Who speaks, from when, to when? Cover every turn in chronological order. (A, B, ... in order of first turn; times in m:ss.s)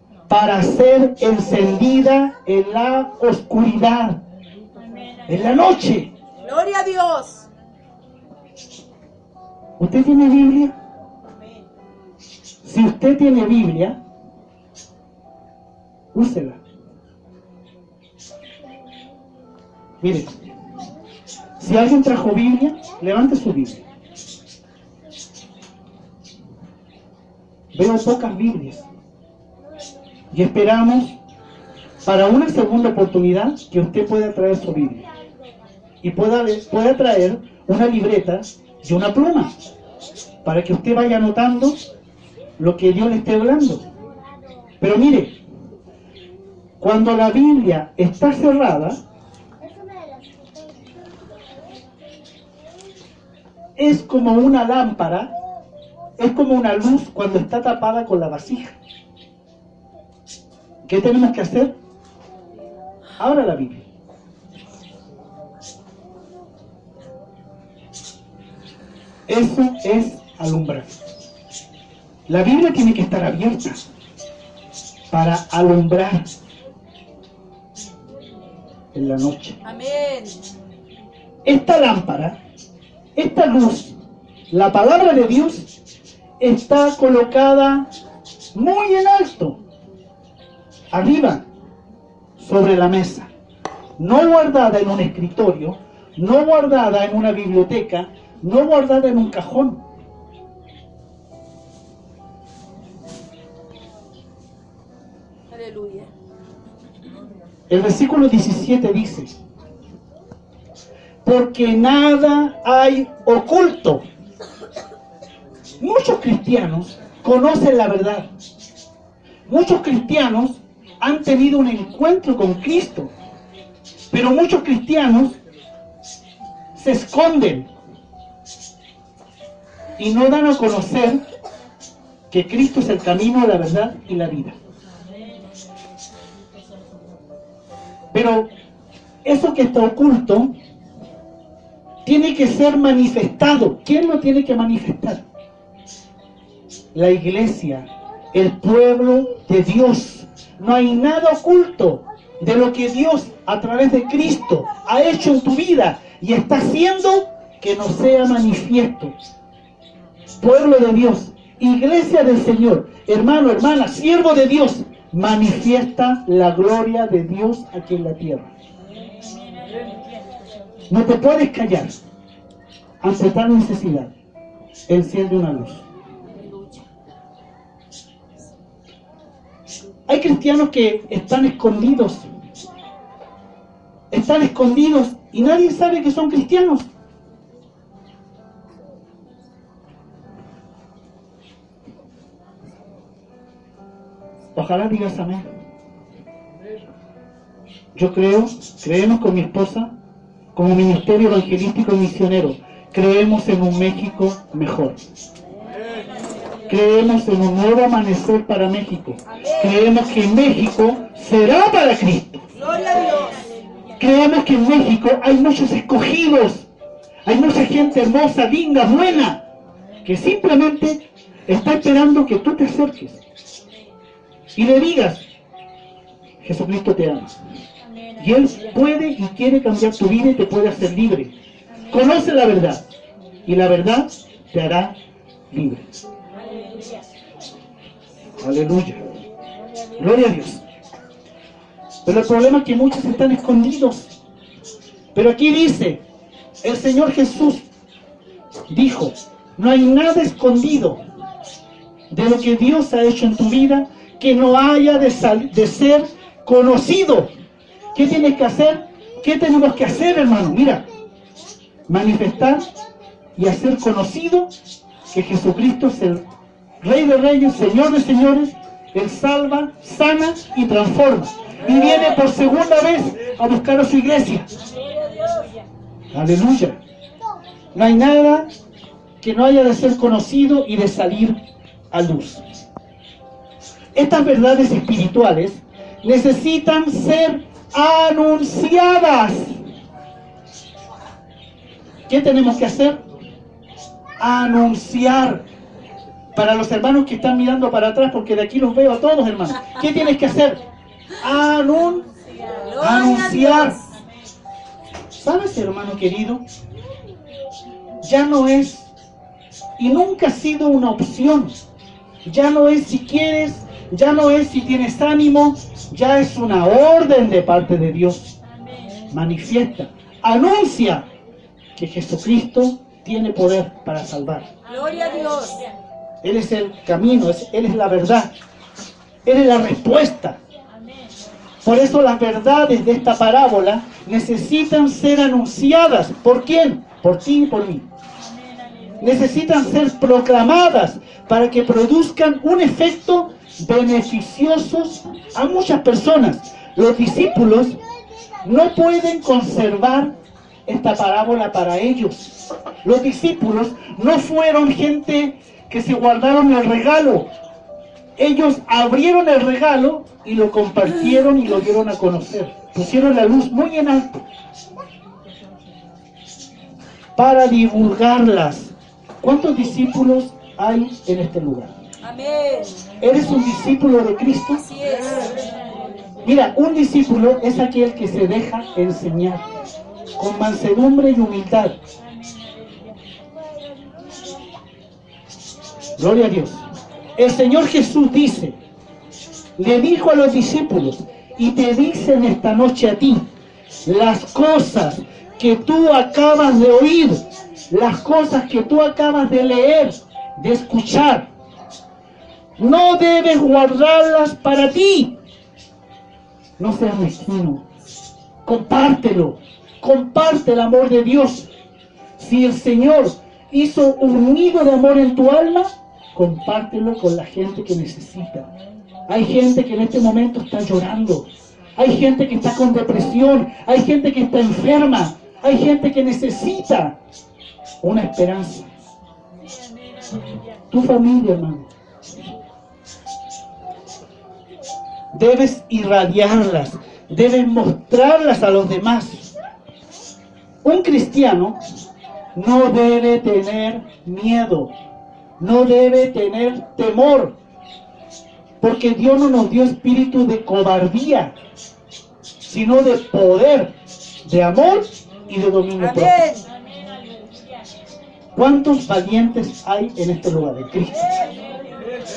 0:00.3-0:04.2 A
0:05.3-0:06.1 A
0:06.4-0:07.4 B
0:09.8-0:10.7 A
0:12.6-0:14.0 A
0:16.1-0:16.6 A
0:20.0-0:20.4 A
0:21.6-0:23.8 A
0:27.7-0:28.8 A
0:30.3-0:31.2 A
0:32.0-0:35.0 A
0:36.0-0:39.5 A
0:40.4-0:41.8 A
0:42.6-0:43.8 A
0:44.8-0:45.4 A
0:46.8-0:49.0 A
0:53.8-0:55.3 A
0:56.2-0:58.8 A
1:00.8-1:01.7 A
1:03.2-1:03.9 A
1:09.3-1:11.0 A
1:12.3-1:13.8 A
1:15.1-1:16.3 A
1:18.9-1:19.6 A
1:19.6-1:20.4 B
1:21.4-1:22.4 A
1:23.2-1:23.9 A
1:24.5-1:25.7 A
1:26.4-1:27.9 A
1:28.5-1:29.6 A
1:30.9-1:31.4 A
1:32.4-1:33.3 A
1:34.0-1:39.8 A
1:45.5-1:46.1 B
1:47.7-1:49.3 A
1:51.2-1:54.0 A
1:55.8-1:58.3 A
1:59.4-2:03.1 A
2:04.1-2:05.4 A
2:06.8-2:07.7 A
2:10.0-2:11.2 A
2:12.3-2:14.6 A
2:18.1-2:18.5 A
2:19.2-2:20.5 A
2:22.0-2:25.2 A
2:26.9-2:39.1 A
2:40.4-2:48.5 A
2:50.9-2:52.0 A
2:53.0-2:54.1 A
2:54.9-2:55.8 A
3:00.1-3:02.3 A
3:04.1-3:06.9 A
3:14.5-3:15.4 A
3:17.9-3:19.9 A
3:20.5-3:25.0 A
3:26.7-3:32.4 A
3:29.3-3:29.8 B
3:32.5-3:33.5 B
3:34.0-3:36.7 A
3:37.2-3:39.4 A
3:40.0-3:43.2 A
3:44.5-3:45.2 A
3:46.4-3:47.3 A
3:48.2-3:51.3 A
3:51.9-3:52.8 A
3:53.4-3:55.0 A
3:55.5-3:55.9 A
3:58.4-3:59.0 A
4:00.0-4:00.6 A
4:02.0-4:04.1 A
4:05.1-4:06.0 A
4:06.6-4:07.6 A
4:08.7-4:11.0 A
4:12.1-4:17.3 A
4:17.9-4:20.9 A
4:21.9-4:22.7 A
4:23.4-4:24.5 A
4:25.1-4:26.2 A
4:26.8-4:34.5 A
4:34.7-4:35.5 B
4:36.1-4:36.8 A
4:37.7-4:38.5 A
4:39.2-4:41.4 A
4:41.9-4:42.4 A
4:43.9-4:49.6 A
4:52.1-4:53.0 A
4:54.2-4:55.4 A
4:56.3-5:00.6 A
5:01.2-5:02.0 A
5:02.5-5:03.9 B
5:02.8-5:03.8 A
5:05.2-5:06.4 A
5:08.0-5:08.9 A
5:09.8-5:11.6 A
5:12.2-5:18.3 A
5:19.1-5:21.0 A
5:21.8-5:24.5 A
5:24.7-5:25.7 B
5:26.2-5:28.3 A
5:29.2-5:30.4 A
5:31.6-5:37.8 A
5:39.0-5:47.8 A
5:48.4-5:50.1 A
5:50.7-5:57.3 A
5:58.2-6:04.2 A
6:07.2-6:11.7 A
6:12.0-6:12.9 B
6:13.0-6:14.6 A
6:14.6-6:15.4 B
6:16.2-6:19.5 A
6:20.2-6:21.8 A
6:26.0-6:26.6 A
6:27.2-6:28.6 A
6:29.6-6:33.3 A
6:33.8-6:41.3 A
6:42.6-6:45.1 A
6:46.6-6:47.6 A
6:48.4-6:51.5 A
6:52.2-6:58.5 A
6:59.1-7:07.0 A
7:07.8-7:08.7 A
7:10.7-7:11.7 A
7:15.1-7:19.3 A
7:20.6-7:21.6 A
7:22.3-7:24.7 A
7:25.4-7:27.3 A
7:28.6-7:31.3 A
7:32.4-7:33.7 A
7:34.2-7:36.2 A
7:35.8-7:36.5 B
7:38.3-7:41.2 A